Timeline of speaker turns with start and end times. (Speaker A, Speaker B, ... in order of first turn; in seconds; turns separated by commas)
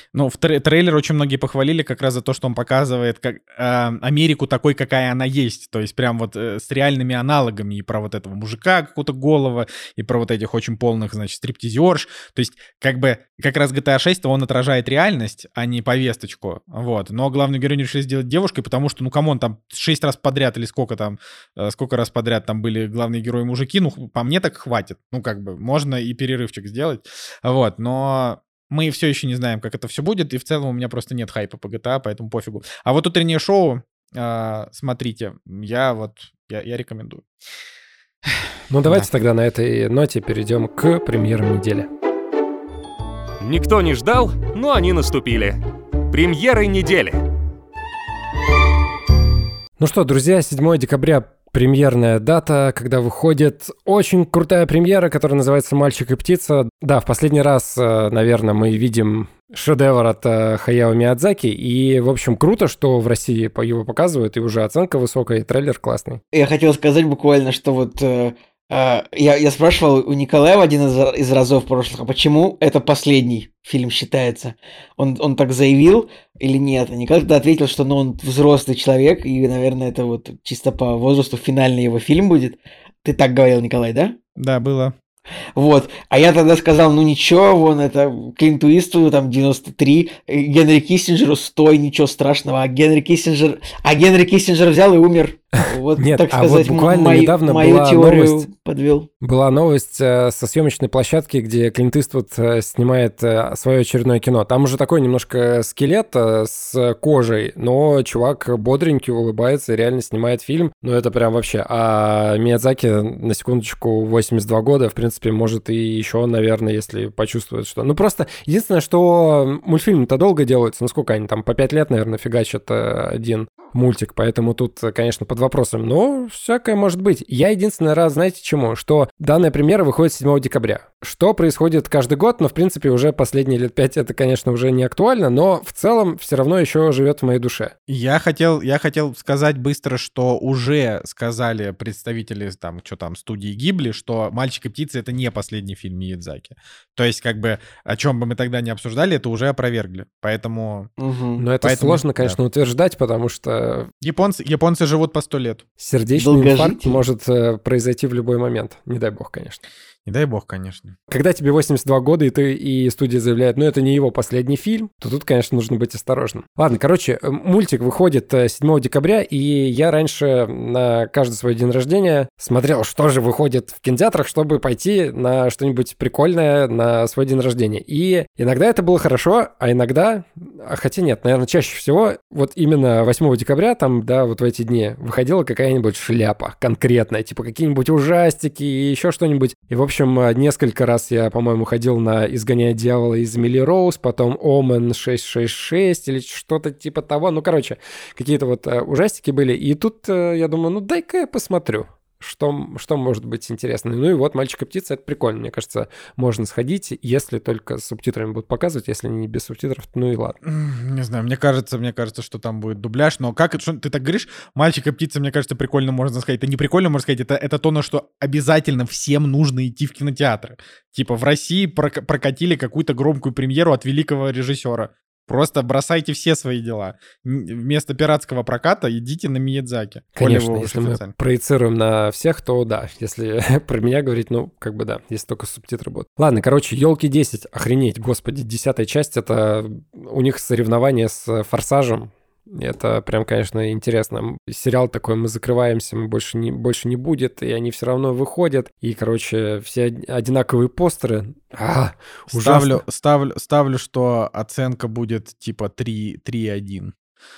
Speaker A: 0.1-37.2, Speaker B: 38.7-41.9, Speaker A: 38.8-39.1, Speaker C: 43.4-47.2, Speaker B: 49.8-66.2, Speaker D: 66.3-84.2, Speaker A: 84.4-84.9, Speaker D: 85.5-99.1, Speaker B: 96.0-98.5, Speaker B: 99.2-137.7, Speaker A: 137.9-150.9, Speaker D: 151.0-151.4, Speaker B: 151.4-153.9, Speaker A: 151.6-152.4, Speaker A: 154.0-155.6, Speaker B: 155.8-159.6, Speaker D: 156.2-157.0, Speaker A: 160.1-160.9, Speaker B: 161.1-210.4, Speaker A: 210.4-231.1, Speaker B: 230.2-252.8, Speaker A: 252.3-256.9